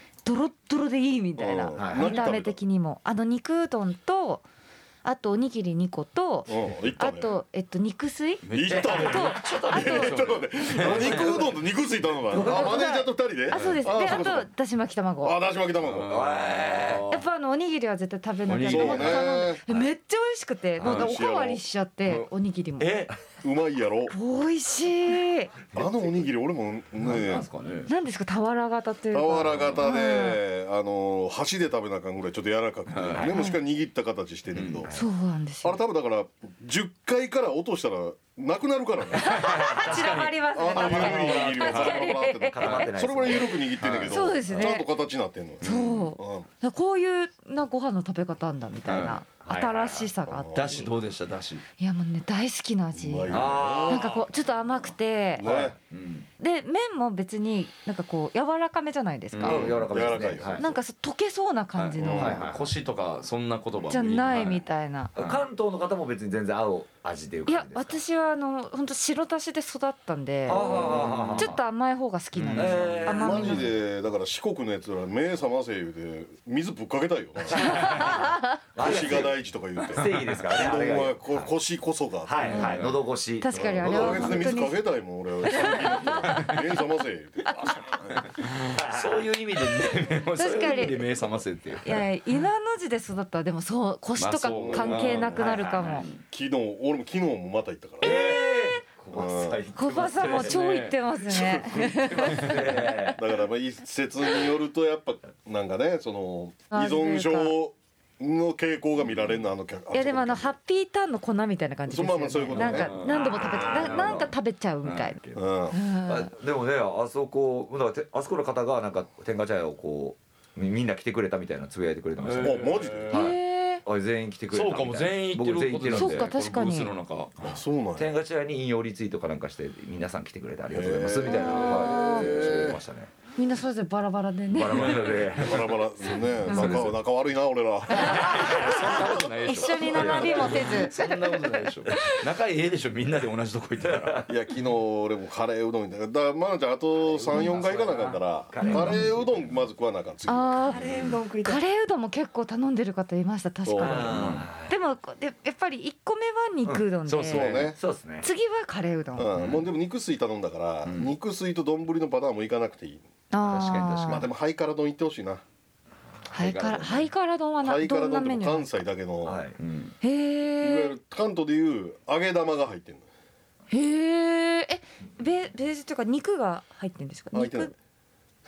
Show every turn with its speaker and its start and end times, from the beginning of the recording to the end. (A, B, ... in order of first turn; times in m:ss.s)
0:00.2-0:04.4 A
0:01.4-0:02.6 B
0:01.8-0:02.2 C
0:05.0-0:10.2 A
0:06.5-0:07.3 B
0:08.4-0:11.6 D
0:08.5-0:14.5 B
0:08.7-0:09.3 C
0:11.0-0:11.4 C
0:12.3-0:12.9 C
0:12.3-0:15.4 A
0:15.2-0:16.3 B
0:15.8-0:17.2 D
0:16.0-0:17.1 C
0:17.1-0:23.1 A
0:18.5-0:19.4 D
0:18.6-0:19.6 B
0:20.8-0:21.1 C
0:20.8-0:21.6 B
0:22.8-0:23.1 C
0:23.4-0:24.2 B
0:24.1-0:25.5 A
0:25.7-0:27.5 B
0:27.0-0:27.9 D
0:27.9-0:30.4 A
0:29.1-0:34.9 B
0:29.4-0:29.8 D
0:32.9-0:33.4 D
0:33.1-0:33.5 C
0:33.3-0:33.6 A
0:34.5-0:34.9 D
0:34.9-0:35.8 A
0:35.6-0:39.7 B
0:39.2-0:42.9 A
0:39.2-0:42.0 D
0:39.5-0:40.2 C
0:40.5-0:46.5 B
0:40.7-0:43.7 C
0:42.6-0:42.9 D
0:43.8-0:44.3 D
0:44.1-0:44.9 A
0:45.6-0:50.9 A
0:45.6-0:46.0 D
0:48.9-0:49.2 D
0:49.4-0:50.1 C
0:50.3-0:50.9 B
0:50.6-0:51.6 D
0:51.8-0:55.5 A
0:52.9-0:54.1 B
0:53.3-0:54.3 C
0:55.4-0:55.8 B
0:55.5-0:56.3 D
0:56.4-0:59.7 A
0:59.3-0:59.8 D
0:59.4-1:00.7 C
0:59.5-1:00.8 B
1:00.6-1:02.4 A
1:01.8-1:04.6 D
1:02.0-1:02.4 B
1:02.1-1:02.7 C
1:03.9-1:05.1 A
1:05.2-1:08.0 C
1:05.2-1:05.4 D
1:07.5-1:10.8 A
1:10.5-1:11.6 C
1:10.5-1:11.6 D
1:11.4-1:13.7 A
1:12.4-1:13.1 D
1:12.5-1:13.7 C
1:13.0-1:18.2 B
1:17.5-1:21.5 C
1:17.6-1:18.6 A
1:18.8-1:22.8 B
1:22.2-1:24.6 C
1:22.4-1:23.0 D
1:22.5-1:22.8 A
1:23.4-1:24.8 A
1:23.5-1:28.3 B
1:25.4-1:26.6 A
1:28.5-1:29.2 C
1:28.8-1:32.0 D
1:30.4-1:31.1 A
1:31.8-1:36.1 A
1:34.2-1:36.2 D
1:34.5-1:35.4 B
1:35.3-1:36.0 C
1:36.2-1:38.1 B
1:38.0-1:40.6 C
1:38.0-1:38.8 A
1:39.1-1:39.6 B
1:39.7-1:43.2 A
1:39.8-1:41.0 D
1:41.3-1:41.8 B
1:41.8-1:42.9 D
1:42.0-1:43.2 C
1:43.2-1:50.6 B
1:46.7-1:47.5 A
1:49.9-1:56.3 A
1:51.9-1:54.2 B
1:52.5-1:54.3 D
1:54.8-1:55.1 D
1:55.4-1:55.8 B
1:56.0-2:06.3 C
2:02.2-2:03.2 D
2:02.4-2:03.2 B
2:03.1-2:03.8 A
2:04.5-2:07.6 D
2:05.9-2:06.9 A
2:07.4-2:08.1 B
2:07.4-2:13.1 C
2:10.7-2:12.8 B
2:11.3-2:12.5 A
2:13.4-2:15.2 A
2:14.5-2:15.8 C
2:14.7-2:15.7 D
2:15.3-2:18.3 B
2:16.3-2:17.0 D
2:16.5-2:16.9 A
2:17.9-2:22.2 A
2:18.0-2:24.3 D
2:18.1-2:19.1 C
2:19.8-2:20.9 C
2:23.9-2:24.3 C
2:24.3-2:31.0 B
2:26.9-2:29.7 C
2:28.6-2:29.0 A
2:28.7-2:29.1 D
2:30.3-2:30.9 A
2:30.7-2:31.6 C
2:31.4-2:37.7 A
2:33.6-2:34.2 B
2:33.8-2:34.8 C
2:34.0-2:34.5 D
2:36.6-2:38.3 C
2:37.1-2:37.7 D
2:37.3-2:37.8 B
2:38.2-2:39.3 A
2:39.2-2:43.0 B
2:39.4-2:39.7 D
2:40.8-2:41.1 D
2:43.3-2:44.3 A
2:43.5-2:44.1 C
2:43.5-2:44.2 D
2:44.0-2:45.4 B
2:46.3-2:48.8 A
2:46.4-2:47.1 D
2:47.6-2:49.5 B
2:49.2-2:49.6 C
2:49.6-2:50.0 D
2:50.0-2:51.0 A
2:50.6-2:53.1 B
2:53.7-2:57.7 A
2:57.3-2:57.7 B